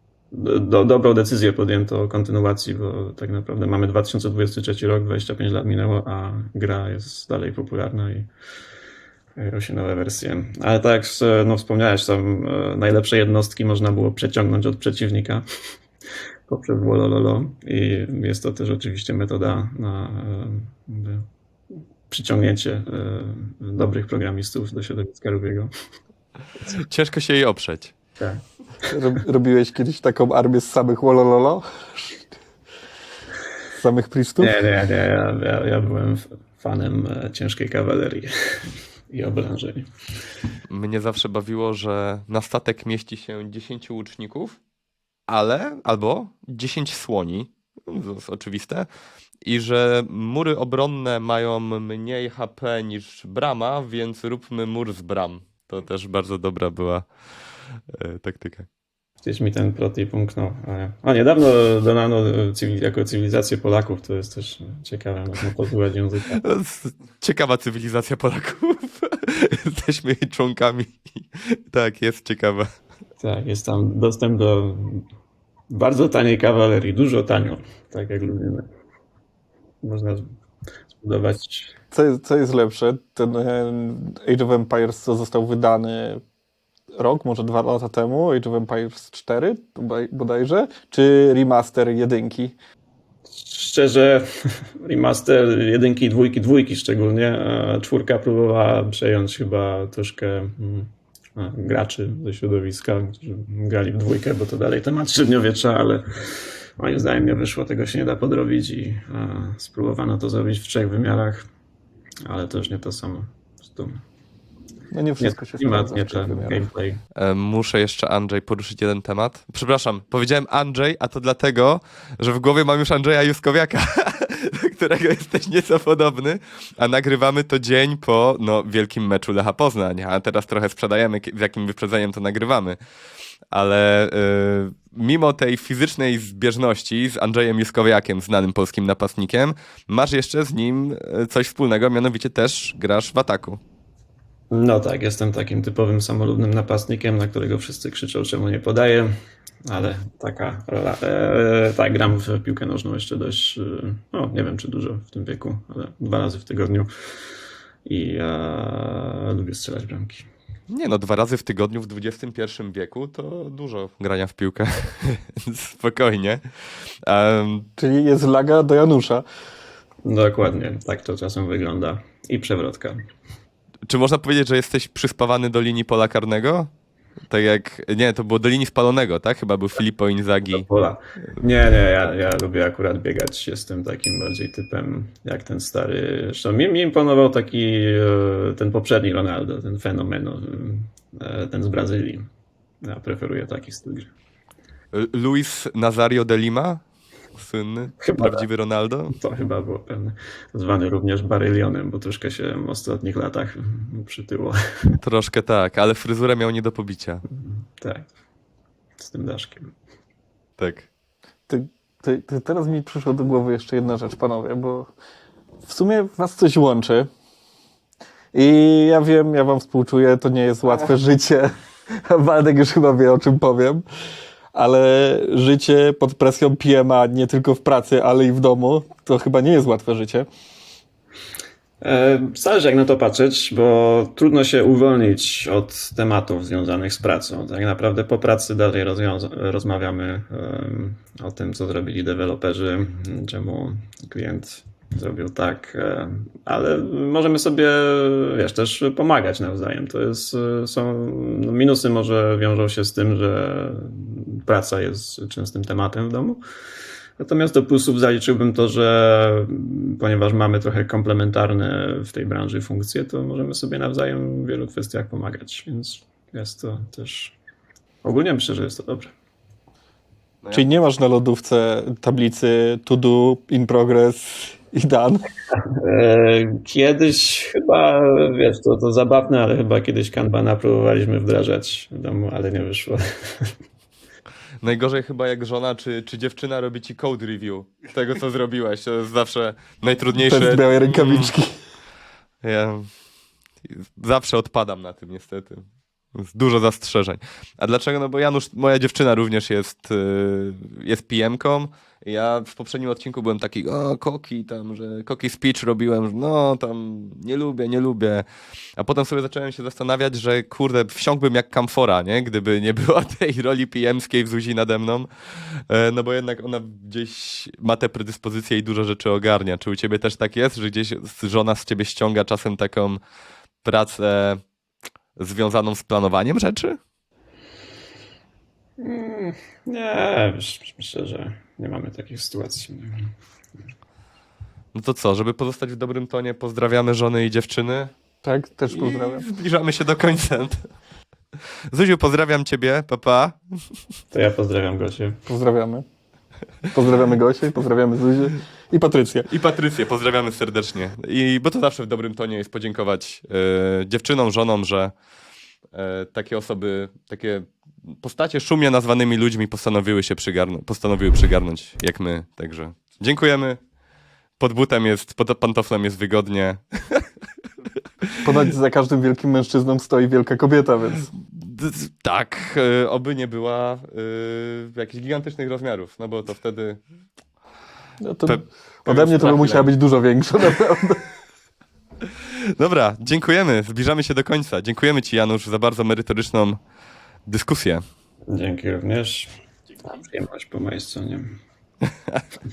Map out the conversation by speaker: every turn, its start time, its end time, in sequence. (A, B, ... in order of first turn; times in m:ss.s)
0:00.3-0:08.3 A
0:09.4-0:15.4 A
0:16.5-0:21.3 A
0:22.1-0:25.7 A
0:26.7-0:27.9 B
0:28.9-0:32.2 C
0:33.8-0:34.6 C
0:34.4-0:39.9 A
0:40.7-0:44.6 B
0:45.3-0:48.9 B
0:49.4-0:57.0 B
0:57.9-0:58.7 B
0:59.2-1:06.4 A
1:06.4-1:12.7 B
1:13.2-1:15.0 A
1:15.7-1:18.7 A
1:19.8-1:20.2 A
1:20.9-1:21.7 A
1:21.9-1:26.2 C
1:27.0-1:32.5 C
1:33.3-1:51.4 A
1:52.2-1:54.0 A
1:54.9-1:56.6 C
1:55.2-1:57.0 A
1:57.2-2:12.8 B
2:13.5-2:23.6 B
2:24.5-2:29.1 A
2:29.6-2:36.9 A
2:37.8-2:40.3 A
2:40.7-2:47.7 B
2:47.8-2:49.2 C
2:50.0-2:53.0 A
2:53.9-2:56.7 B
2:57.3-3:00.7 B
3:00.5-3:12.3 A
3:12.8-3:14.1 A
3:14.9-3:16.8 B
3:17.4-3:19.2 B
3:18.0-3:18.4 A
3:19.1-3:25.0 A
3:25.0-3:27.2 B
3:27.3-3:28.1 A
3:29.0-3:29.7 A
3:30.6-3:30.9 B
3:31.5-3:34.9 C
3:35.6-3:37.1 C
3:38.3-3:43.8 C
3:44.5-3:50.3 C
3:51.8-4:16.4 A
4:17.2-4:27.4 A
4:28.0-4:29.1 A
4:30.4-4:30.7 B
4:30.5-4:35.2 C
4:35.5-4:43.5 A
4:44.6-4:51.3 B
4:50.2-4:51.5 C
4:52.4-4:52.9 B
4:53.6-5:08.2 B
5:08.8-5:23.0 B
5:23.6-5:24.4 B
5:25.2-5:26.8 B
5:28.8-5:33.1 A
5:34.7-5:37.9 B
5:38.2-5:39.2 C
5:38.7-5:40.7 B
5:41.7-5:43.6 B
5:44.1-5:45.2 A
5:45.3-5:45.8 C
5:46.7-5:49.3 C
5:49.3-5:54.9 B
5:55.7-6:03.6 B
6:04.4-6:07.1 B
6:08.2-6:11.1 C
6:11.3-6:16.8 B
6:18.0-6:21.0 C
6:18.2-6:19.7 B
6:22.3-6:26.6 B
6:27.2-6:27.8 B
6:28.3-6:31.4 A